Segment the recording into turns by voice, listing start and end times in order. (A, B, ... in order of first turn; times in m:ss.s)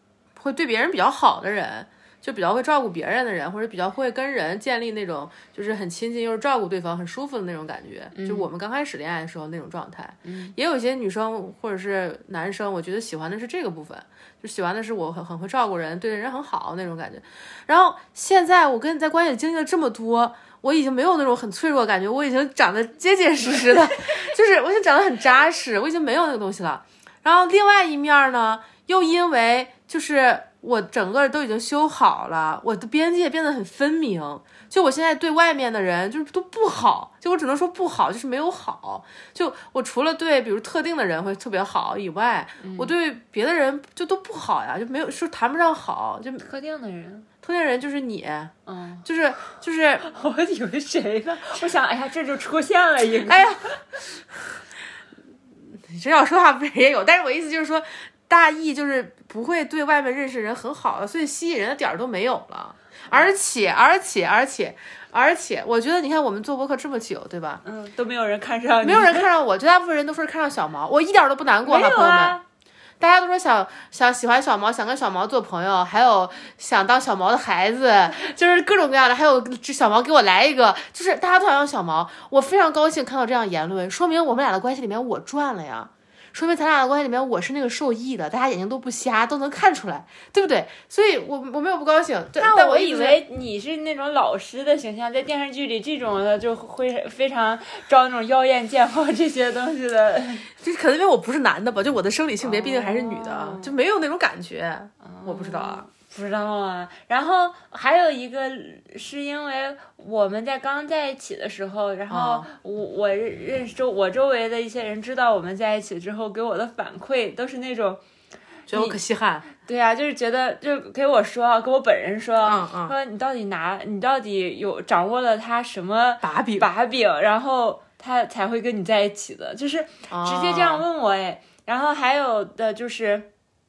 0:00.4-0:46.5 A
0:08.1-0:08.5 B
0:10.2-0:10.5 B
0:42.6-0:42.9 B
0:46.4-0:47.3 B
0:47.4-0:48.5 A
0:48.7-0:49.1 B
0:49.0-0:50.1 A
0:50.0-0:53.8 B
0:53.2-0:54.2 A
0:55.7-1:07.6 A
1:07.6-1:09.3 B
1:08.8-1:12.4 A
1:11.6-1:12.4 B
1:13.0-1:33.2 A
1:32.4-1:40.5 B
1:40.6-1:45.9 A
1:42.4-1:43.7 B
1:45.0-1:58.0 B
1:52.1-1:52.5 A
1:58.7-1:59.5 A
1:58.7-1:59.0 B
1:59.6-2:13.3 B
2:02.4-2:02.9 A
2:06.2-2:06.7 A
2:10.1-2:10.9 A